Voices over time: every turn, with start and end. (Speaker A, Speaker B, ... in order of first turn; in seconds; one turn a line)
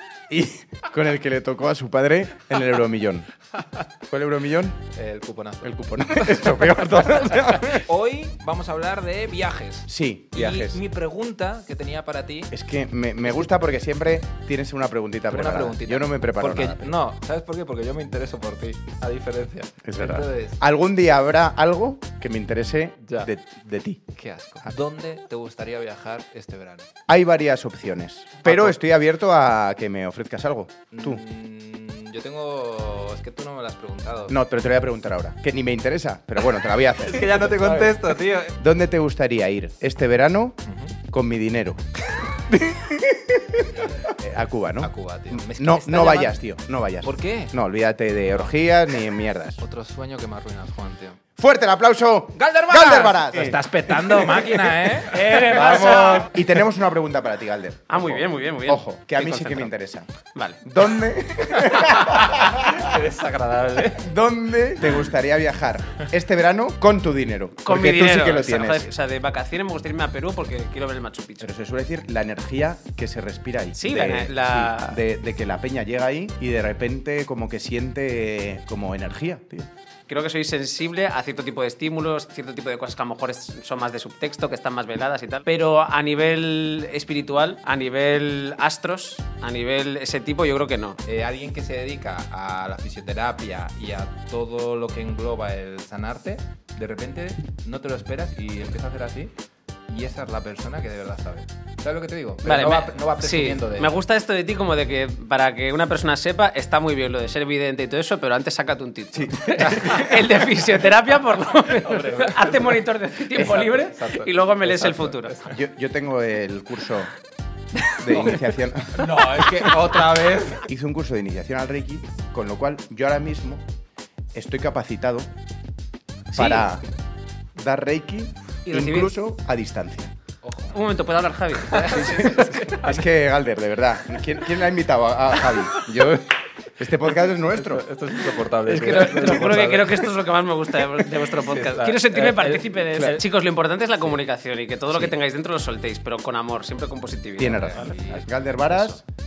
Speaker A: 0.3-3.3
Speaker A: 4.1-4.8
Speaker B: 5.0-6.6
Speaker A: 5.6-7.8
Speaker B: 7.5-12.5
Speaker A: 9.9-10.8
Speaker A: 12.5-17.0
Speaker B: 15.3-20.6
Speaker A: 19.8-24.0
Speaker B: 24.1-26.9
Speaker A: 27.1-31.2
Speaker B: 28.4-28.8
Speaker B: 30.9-34.4
Speaker A: 34.3-49.6
Speaker B: 37.0-38.6
Speaker B: 40.6-40.9
Speaker B: 44.8-46.4
Speaker B: 47.0-47.5
Speaker B: 49.6-51.2
Speaker A: 51.4-60.1
Speaker B: 52.4-55.5
Speaker C: 55.1-56.4
Speaker C: 57.9-59.7
Speaker C: 60.4-60.6
Speaker A: 60.6-62.9
Speaker B: 61.8-64.1
Speaker A: 64.0-68.9
Speaker C: 67.7-71.5
Speaker A: 71.4-79.7
Speaker C: 73.8-75.0
Speaker C: 80.1-91.0
Speaker B: 91.0-99.3
Speaker B: 99.9-104.0
Speaker C: 102.4-115.4
Speaker A: 109.1-110.2
Speaker B: 109.7-110.5
Speaker B: 111.7-115.6
Speaker A: 115.5-117.1
Speaker A: 117.9-123.6
Speaker B: 118.1-120.7
Speaker A: 124.3-125.3
Speaker C: 126.3-126.7
Speaker A: 126.3-126.8
Speaker A: 127.6-130.1
Speaker C: 128.7-129.1
Speaker B: 130.4-130.9
Speaker C: 130.7-132.7
Speaker B: 131.6-132.9
Speaker A: 131.8-137.9
Speaker B: 135.7-136.1
Speaker B: 137.5-140.1
Speaker C: 138.6-149.0
Speaker B: 141.1-143.0
Speaker A: 142.9-143.2
Speaker A: 147.4-149.0
Speaker B: 147.6-148.3